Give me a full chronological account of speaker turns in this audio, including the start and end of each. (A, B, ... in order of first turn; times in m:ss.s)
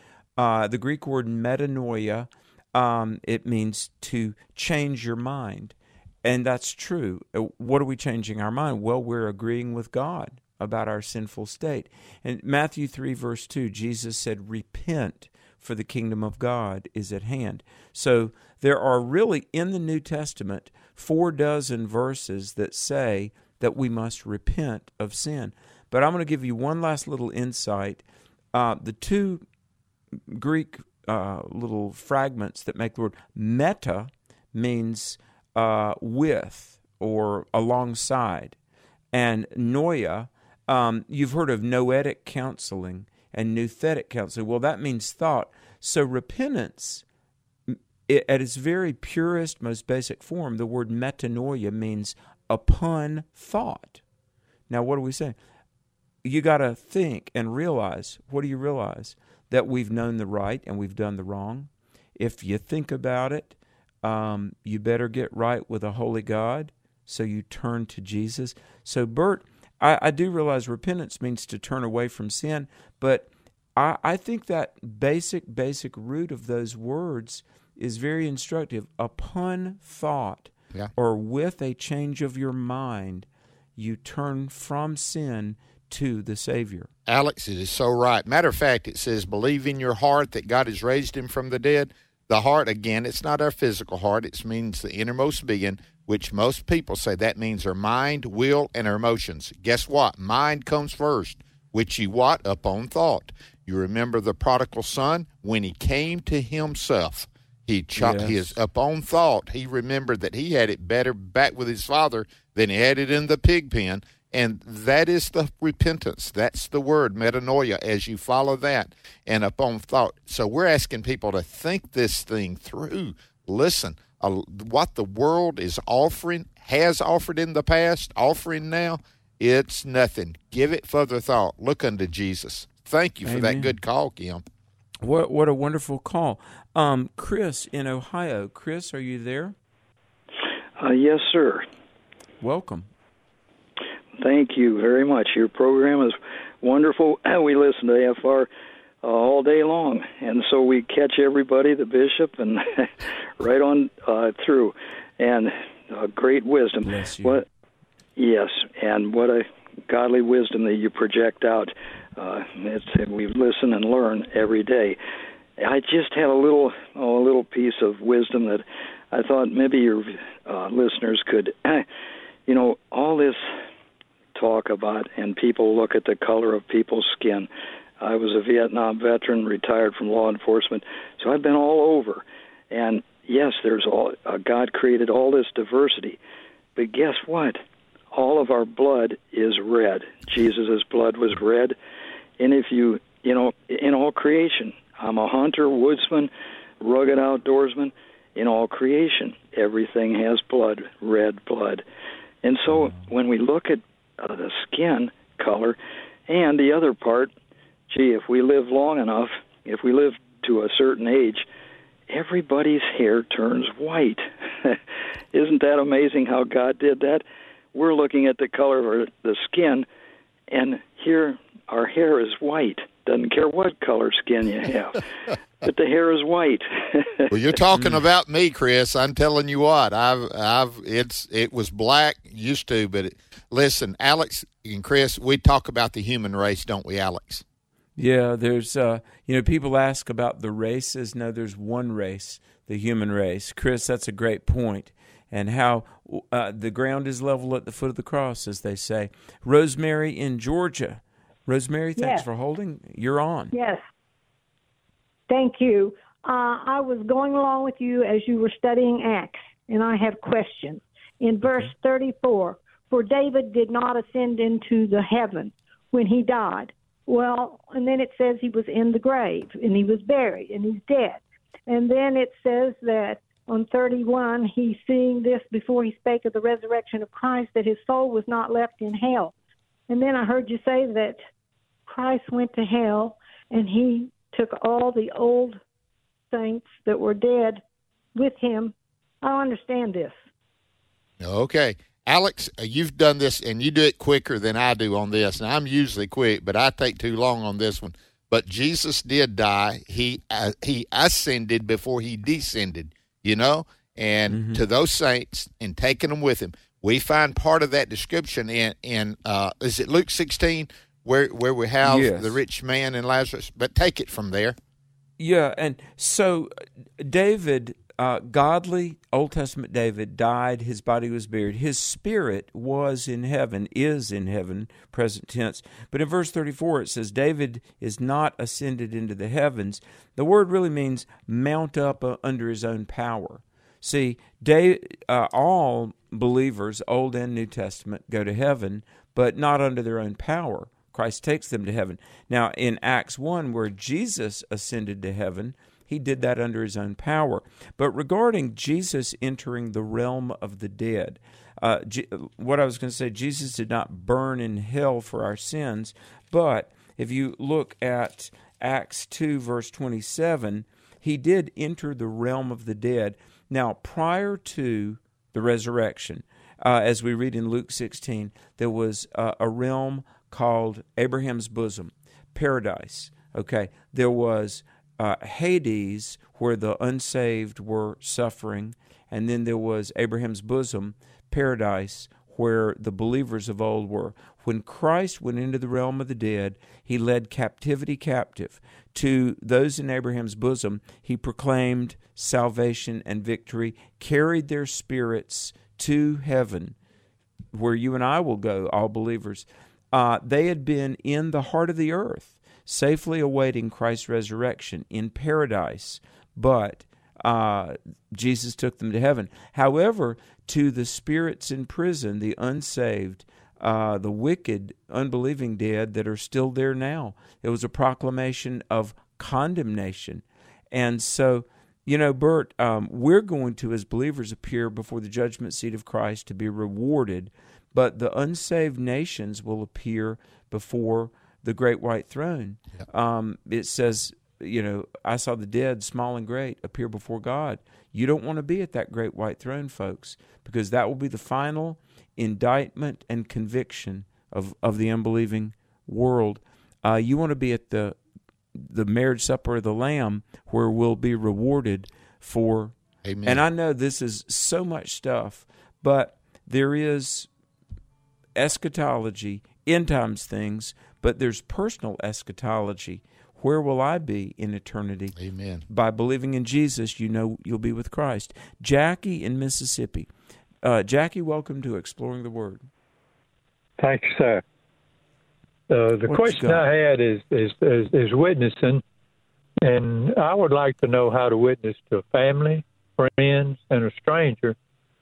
0:00.4-0:28.0 A
0:28.5-0:29.4 A
0:30.3-0:38.6 A
0:39.1-0:47.0 A
0:47.7-0:54.0 A
0:54.7-0:55.3 A
0:56.2-1:26.9 A
1:27.0-2:14.4 B
1:48.0-1:48.6 A
2:13.2-2:13.7 A
2:15.0-2:19.5 A
2:20.8-2:21.6 C
2:22.4-2:22.9 A
2:24.2-2:28.5 C
2:29.0-2:37.4 C
2:36.8-2:37.4 A
2:38.2-2:45.0 C
2:45.6-2:51.9 C
2:52.5-2:53.4 C
2:54.3-3:06.2 C
3:06.8-3:07.6 C
3:08.1-3:11.8 C
3:12.4-3:21.8 C
3:22.4-3:27.3 C
3:27.9-3:31.4 C
3:32.1-3:34.8 C
3:35.3-3:39.8 C
3:40.5-3:45.1 C
3:45.6-3:47.3 C
3:47.3-3:57.4 B
3:47.7-3:48.0 A
3:58.0-4:13.5 A
4:12.0-4:12.2 D
4:13.5-4:13.8 D
4:15.3-4:39.3 D
4:39.9-4:41.2 D
4:41.9-4:45.6 D
4:46.3-4:47.6 D
4:48.1-4:50.2 D
4:51.2-5:14.6 B
5:04.3-5:04.6 A
5:11.8-5:12.4 A
5:15.2-6:36.7 A
6:37.5-7:28.0 A
7:28.5-7:37.3 A
7:33.0-7:33.4 B
7:38.4-7:45.2 A
7:45.1-7:45.6 B
7:45.7-7:50.1 A
7:50.6-7:52.7 A
7:53.8-7:54.4 E
7:55.7-7:58.8 E
7:56.0-7:56.7 A
7:59.6-8:04.5 E